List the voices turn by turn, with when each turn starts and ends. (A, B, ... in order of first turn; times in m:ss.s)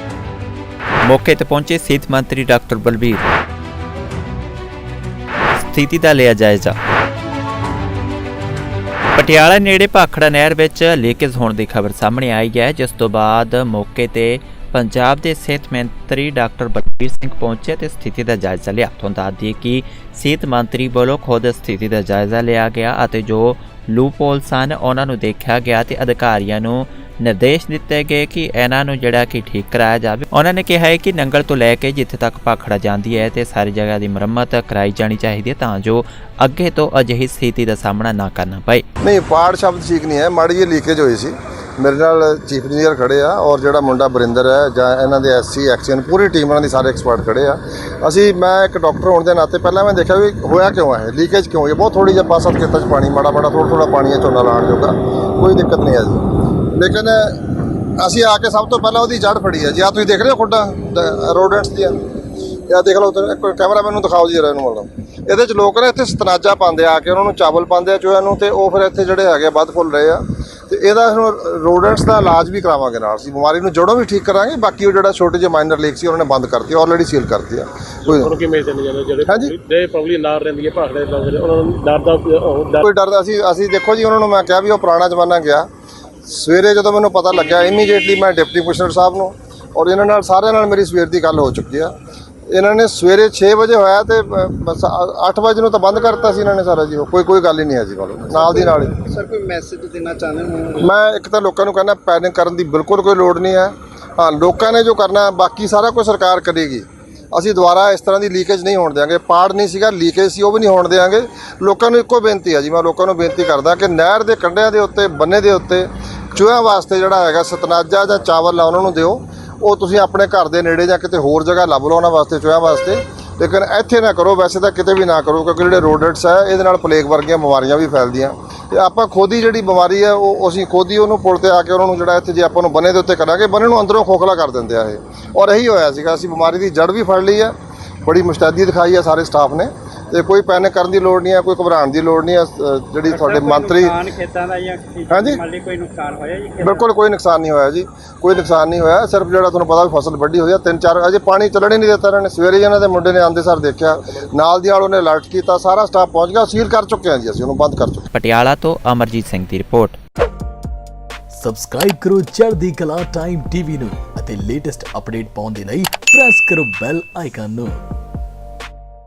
0:01.0-0:03.2 A
0:05.6-0:06.8 A
0:09.2-0:38.8 A
0:39.0-0:57.4 B
0:58.0-1:01.9 B
1:02.7-1:18.3 B
1:18.0-1:22.8 C
1:19.2-1:19.5 B
1:22.8-1:25.7 B
1:26.2-1:31.9 B
1:32.5-1:38.9 B
1:38.3-1:40.9 D
1:40.8-2:17.5 B
2:18.0-2:24.0 B
2:23.1-2:26.8 E
2:25.1-2:25.4 B
2:26.6-2:38.1 B
2:38.1-2:40.0 A
2:41.3-2:47.8 F